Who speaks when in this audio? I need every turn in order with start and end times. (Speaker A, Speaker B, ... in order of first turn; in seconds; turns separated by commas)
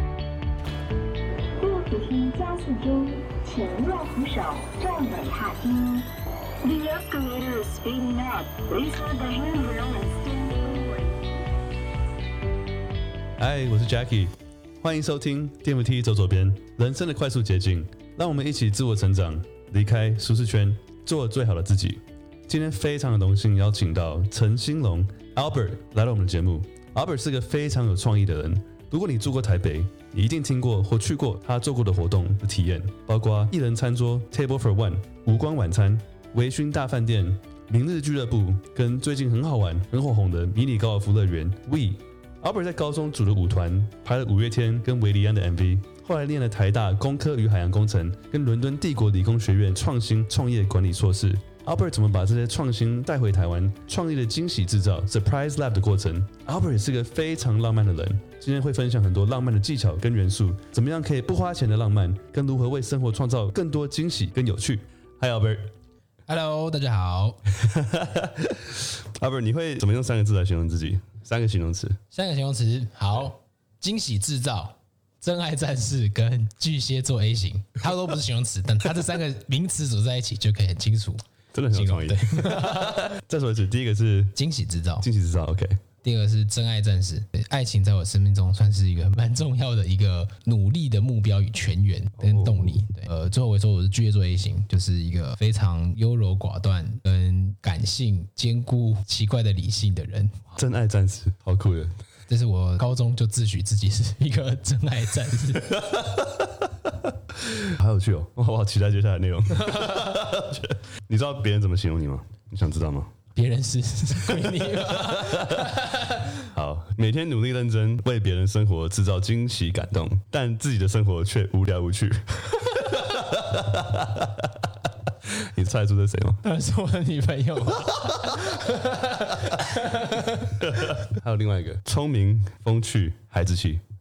Speaker A: 1.6-6.1, Speaker A: 6.6-11.1, Speaker B: 13.4-65.7, Speaker C: 66.3-67.4, Speaker B: 67.6-72.0, Speaker C: 72.1-83.1, Speaker B: 81.5-84.3, Speaker C: 84.3-85.1, Speaker B: 85.0-85.8, Speaker C: 86.0-100.4, Speaker B: 92.2-92.8, Speaker B: 100.5-102.0, Speaker C: 102.3-105.8, Speaker B: 105.7-106.7, Speaker B: 107.4-113.1, Speaker C: 109.6-110.2, Speaker C: 113.3-116.5, Speaker B: 115.1-115.7, Speaker B: 116.4-124.7, Speaker B: 125.2-126.4, Speaker C: 126.4-131.0, Speaker B: 127.9-128.6, Speaker B: 130.6-133.8